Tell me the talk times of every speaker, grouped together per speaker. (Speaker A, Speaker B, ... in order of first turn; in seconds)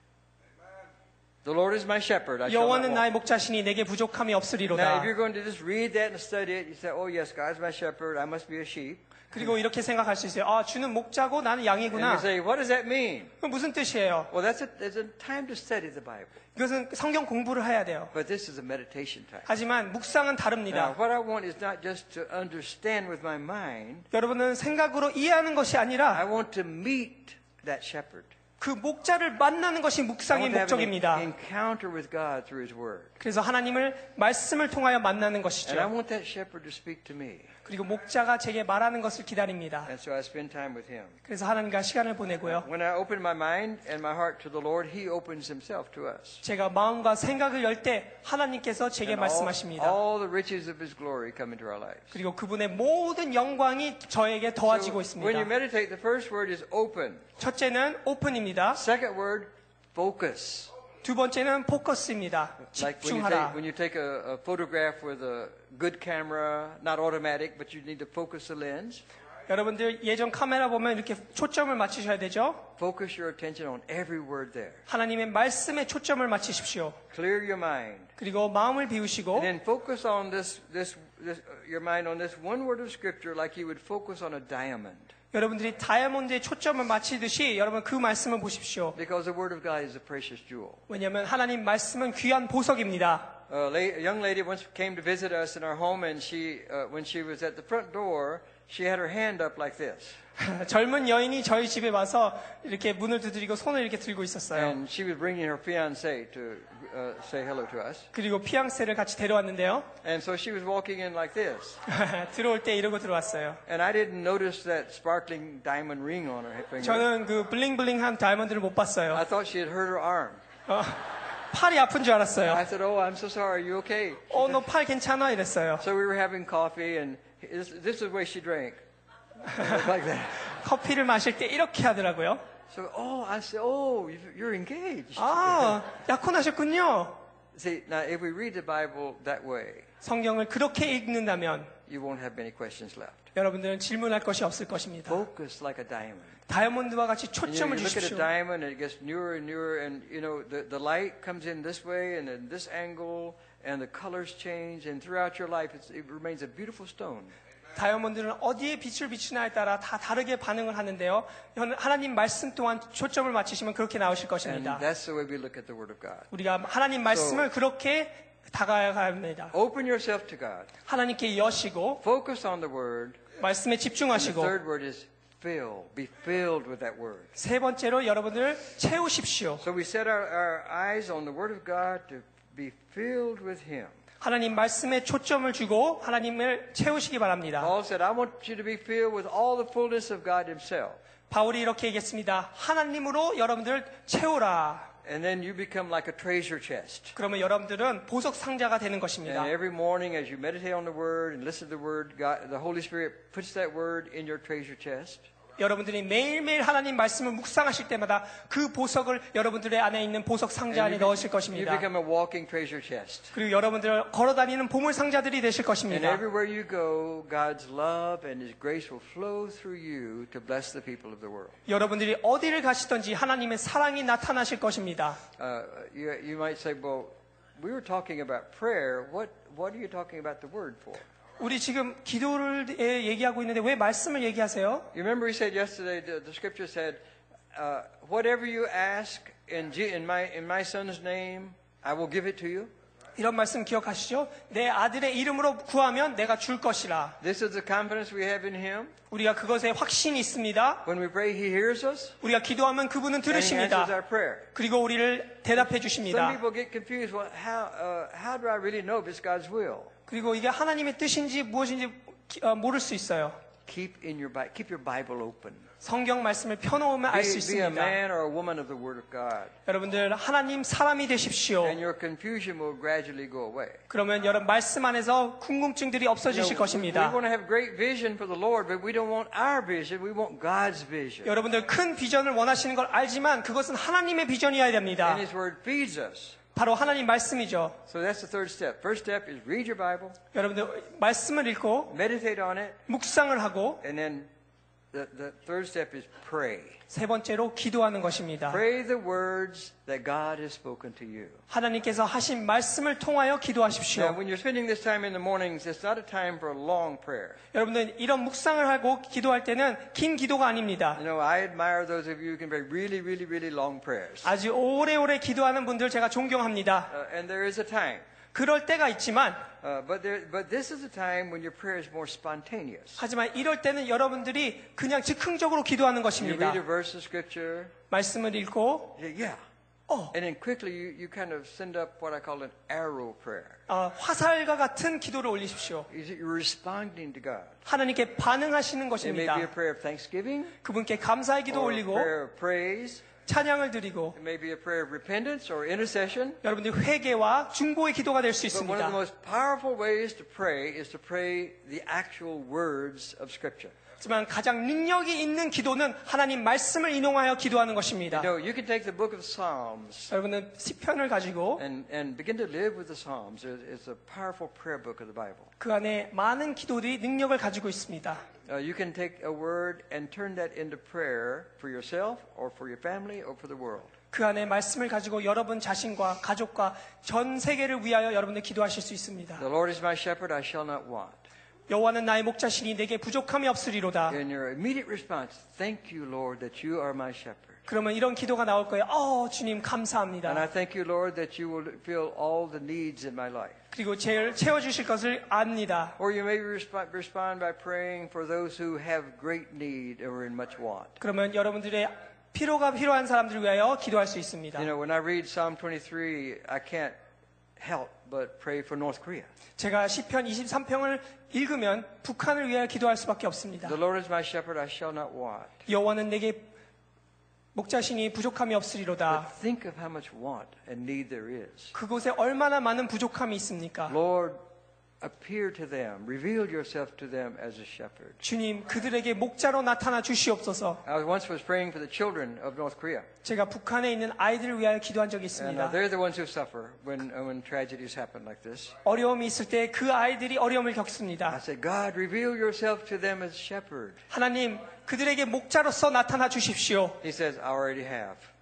Speaker A: 1.4-3.0, 4.7-9.0, 11.9-13.3, 14.3-16.4, 18.1-19.5, 20.7-24.1, 26.1-28.3, 30.3-33.1, 35.7-37.5, 39.9-41.2, 42.5-46.4, 49.0-52.1, 54.7-57.2, 58.7-60.7, 62.8-69.0, 72.8-74.8, 77.1-78.1, 79.3-85.1, 89.0-90.8, 93.5-100.2, 104.5-108.1, 110.0-111.8, 113.7-117.1, 119.1-120.4, 122.5-124.6, 125.8-128.8, 129.5-130.5, 132.7-135.8, 137.5-139.9, 141.9-143.3, 145.1-146.4, 147.4-157.3, 164.4-166.3, 167.1-167.5, 169.5-170.7, 172.0-173.2, 174.1-177.3, 179.6-183.9, 187.6-191.0, 195.0-197.2, 199.2-205.2, 210.7-213.3, 215.9-221.6, 225.4-231.0, 234.9-237.0, 237.5-242.7, 247.2-248.9, 250.8-252.2, 253.3-254.5, 256.0-259.9, 263.7-265.6, 267.1-269.5, 271.6-273.8, 276.3-281.3, 285.0-286.4, 287.9-290.2, 291.9-292.8, 293.8-294.3, 294.9-296.8, 298.5-301.4, 303.9-307.4, 310.9-314.3, 316.9-318.0, 319.6-323.0, 326.2-327.7, 329.0-329.4, 330.1-333.6, 335.9-337.6, 339.0-340.5, 341.5-343.1, 344.1-346.4, 348.5-353.7, 358.1-360.1, 361.6-365.5, 368.5-373.9, 379.4-381.2, 384.1-387.6, 390.2-393.6, 396.0-401.0, 404.6-406.9, 407.6-409.3, 413.6-415.6, 419.1-421.7, 423.9-424.4, 425.0-428.2, 430.9-433.1, 435.3-438.8, 441.3-444.0, 447.0-448.3
Speaker B: 2.5-5.1, 9.3-12.3, 13.4-14.3, 16.6-18.1, 19.5-20.9, 24.1-26.2, 28.6-31.3, 33.2-35.9, 37.6-39.9, 41.3-42.7, 46.4-50.0, 52.1-55.5, 57.4-58.8, 61.0-63.6, 69.5-72.7, 74.9-77.0, 78.2-79.5, 85.3-89.0, 90.9-93.3, 100.4-104.8, 108.1-109.9, 111.9-113.6, 116.8-119.2, 120.7-122.6, 124.3-125.8, 129.5-129.9, 130.4-132.4, 135.2-137.2, 140.0-141.7, 143.3-145.2, 146.5-148.3, 157.8-164.8, 166.3-169.5, 170.9-172.0, 173.4-174.6, 177.4-179.6, 184.2-187.7, 191.3-194.9, 197.2-199.5, 205.6-211.8, 213.3-216.2, 221.7-225.2, 231.4-234.9, 243.2-247.2, 249.1-250.8, 252.2-253.9, 254.6-256.4, 260.1-263.4, 265.8-268.0, 269.7-271.8, 273.9-277.2, 281.2-285.2, 286.6-287.8, 290.3-291.9, 292.9-293.8, 296.9-298.6, 301.5-304.2, 307.5-311.0, 314.2-316.9, 318.3-319.4, 323.0-326.6, 327.9-329.0, 329.9-330.1, 333.7-335.9, 337.7-339.5, 340.6-342.1, 343.3-344.2, 346.4-349.0, 354.0-358.3, 360.1-361.6, 365.6-368.2, 374.1-379.4, 381.7-384.2, 387.7-390.4, 393.7-396.0, 401.0-404.7, 409.6-413.8, 415.7-416.5, 417.6-419.3, 421.7-423.9, 428.2-430.8, 433.2-435.8, 438.9-441.4, 444.1-447.0